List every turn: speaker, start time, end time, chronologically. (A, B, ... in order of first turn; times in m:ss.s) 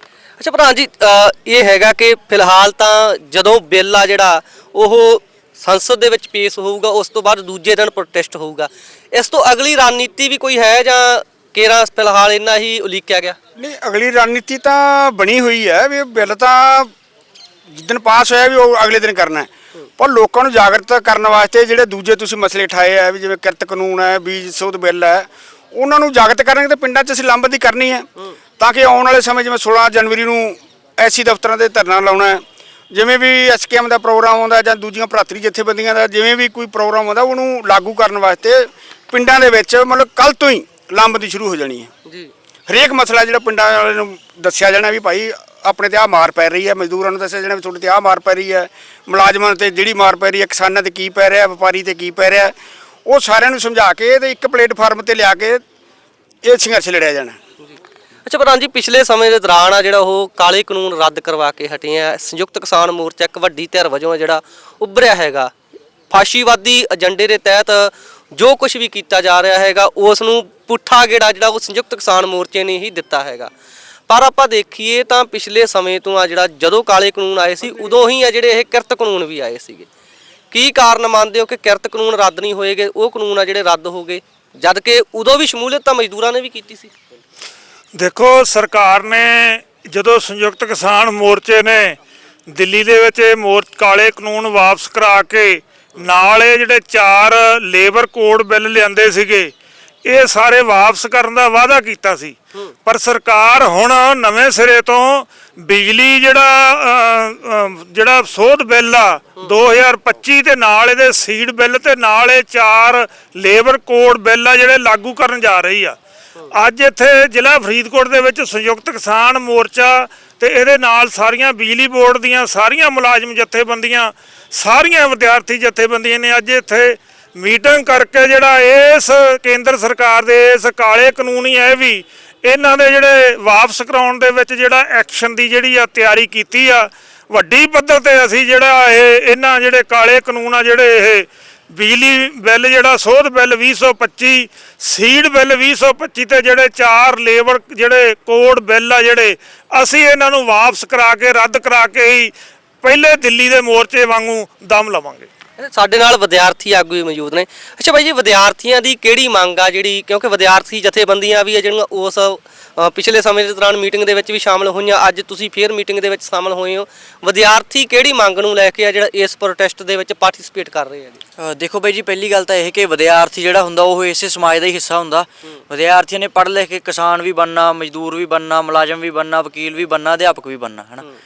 0:00.4-0:04.2 A
0:04.2-0:04.4 B
0:04.8-0:05.1 A
0:05.7-0:08.4 A
0:05.8-0:06.1 B
0:08.3-0:08.7 B
0:09.2-0:13.3 A
0:13.6-0:16.9 B
0:17.7-0:32.4 B
0:33.0-0:52.6 B
0:53.1-0:55.6 B
0:56.4-0:57.7 B
0:58.3-0:59.6 B
0:58.7-0:59.0 A
0:59.6-1:00.6 A
1:00.5-1:01.9 B
1:01.6-1:03.9 A
1:02.4-1:04.4 B
1:04.8-1:05.4 A
1:06.1-1:07.8 A
1:06.5-1:07.5 B
1:08.4-1:13.5 A
1:10.5-1:11.1 B
1:14.1-1:19.8 A
1:17.2-1:17.9 B
1:19.0-1:19.8 B
1:20.5-1:24.1 A
1:24.6-1:26.9 A
1:25.8-1:26.2 B
1:28.0-1:32.0 C
1:32.5-1:39.5 C
1:40.0-1:56.0 C
1:56.5-2:32.3 C
2:32.8-2:35.3 C
2:35.6-2:42.3 A
2:38.6-2:40.3 B
2:42.9-2:49.0 A
2:44.2-2:45.0 B
2:45.5-2:46.8 B
2:48.1-2:50.9 B
2:49.6-2:50.2 A
2:51.4-3:01.0 D